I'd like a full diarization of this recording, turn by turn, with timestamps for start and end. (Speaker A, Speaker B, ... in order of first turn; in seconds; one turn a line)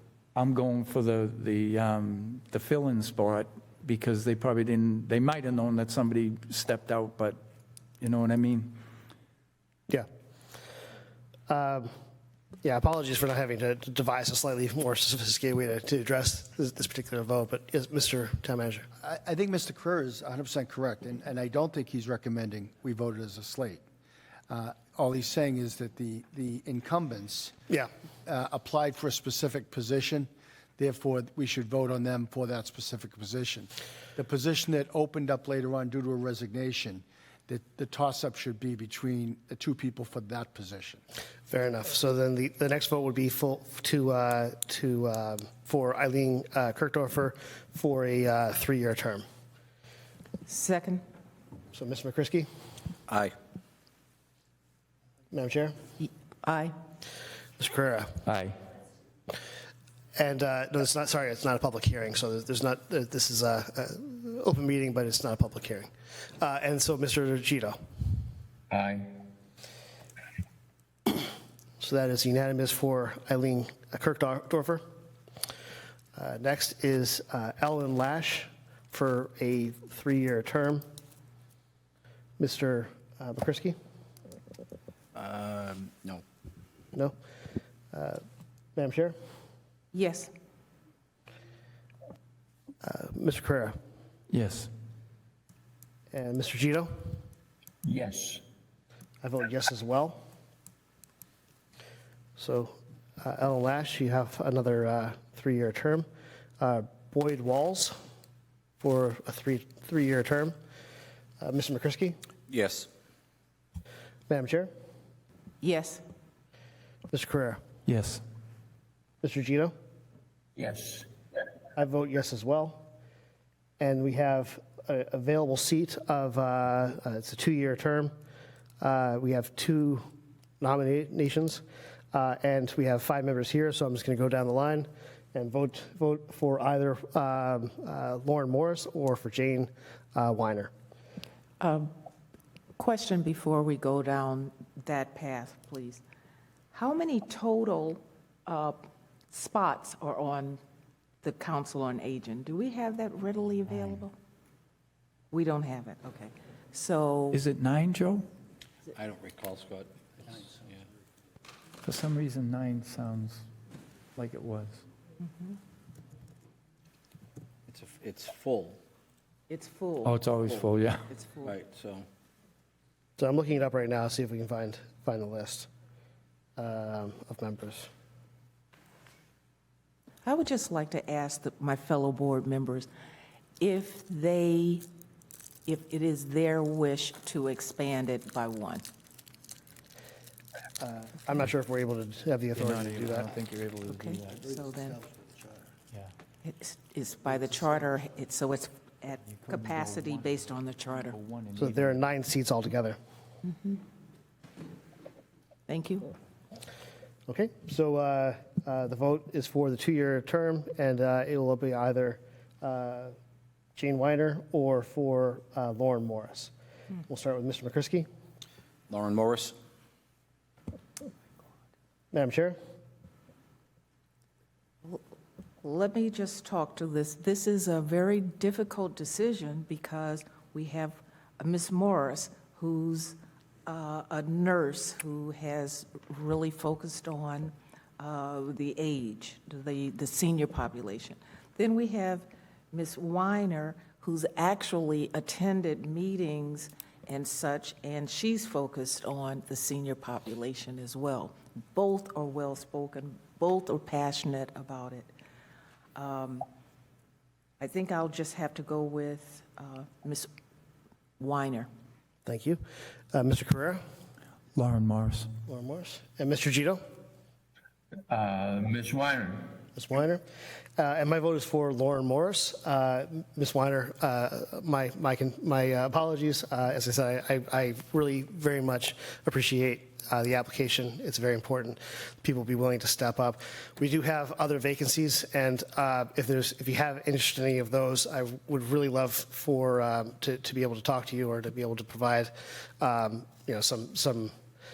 Speaker A: 0.3-7.4
Speaker A: 8.0-8.8
Speaker B: 11.5-11.9
Speaker B: 12.6-18.9
Speaker C: 19.0-23.8
Speaker C: 24.5-27.5
Speaker C: 28.2-41.0
Speaker B: 41.5-49.2
Speaker D: 50.5-51.0
Speaker B: 51.7-52.5
Speaker E: 53.1-53.3
Speaker B: 55.3-55.7
Speaker D: 56.0-56.7
Speaker B: 57.6-58.2
Speaker A: 58.2-58.5
Speaker B: 60.1-67.8
Speaker F: 68.7-69.2
Speaker B: 71.8-74.8
Speaker B: 76.2-80.8
Speaker B: 82.4-83.8
Speaker E: 85.1-86.2
Speaker B: 87.9-88.2
Speaker B: 88.8-89.1
Speaker D: 89.9-90.3
Speaker B: 92.8-93.8
Speaker A: 94.3-94.7
Speaker B: 96.1-97.1
Speaker F: 97.8-98.4
Speaker B: 99.2-100.2
Speaker B: 102.4-106.0
Speaker B: 106.6-108.0
Speaker B: 108.8-110.5
Speaker B: 111.4-112.2
Speaker E: 112.5-112.9
Speaker B: 114.3-114.7
Speaker D: 115.6-116.0
Speaker B: 117.1-117.6
Speaker A: 117.8-118.2
Speaker B: 119.2-119.7
Speaker F: 120.6-121.1
Speaker B: 121.8-122.9
Speaker B: 123.8-128.1
Speaker B: 128.8-130.1
Speaker B: 130.6-131.6
Speaker B: 132.1-140.7
Speaker D: 141.6-141.9
Speaker D: 142.8-146.0
Speaker D: 146.7-150.6
Speaker D: 151.2-154.1
Speaker A: 153.7-154.0
Speaker D: 155.3-157.4
Speaker A: 157.3-158.3
Speaker E: 158.9-160.8
Speaker A: 161.8-163.4
Speaker A: 164.2-164.8
Speaker E: 167.7-168.8
Speaker D: 169.5-170.2
Speaker A: 170.0-171.1
Speaker D: 171.1-171.6
Speaker E: 171.4-172.1
Speaker B: 173.2-175.7
Speaker B: 176.6-177.9
Speaker D: 180.2-182.9
Speaker D: 183.6-184.8
Speaker D: 185.7-188.9
Speaker B: 190.8-193.3
Speaker A: 192.6-194.4
Speaker D: 193.8-195.0
Speaker D: 196.4-201.2
Speaker A: 199.2-202.0
Speaker B: 201.6-203.0
Speaker D: 203.4-203.8
Speaker D: 205.7-206.1
Speaker B: 207.3-213.1
Speaker B: 213.8-216.5
Speaker B: 217.1-218.1
Speaker E: 218.9-219.6
Speaker B: 222.1-222.6
Speaker D: 225.6-255.1
Speaker D: 255.9-256.4
Speaker D: 257.6-260.3
Speaker D: 261.2-261.7
Speaker B: 262.2-262.6
Speaker B: 263.1-263.8
Speaker A: 264.6-265.3
Speaker B: 265.5-266.8
Speaker F: 268.1-269.5
Speaker B: 269.7-270.2
Speaker B: 270.8-294.3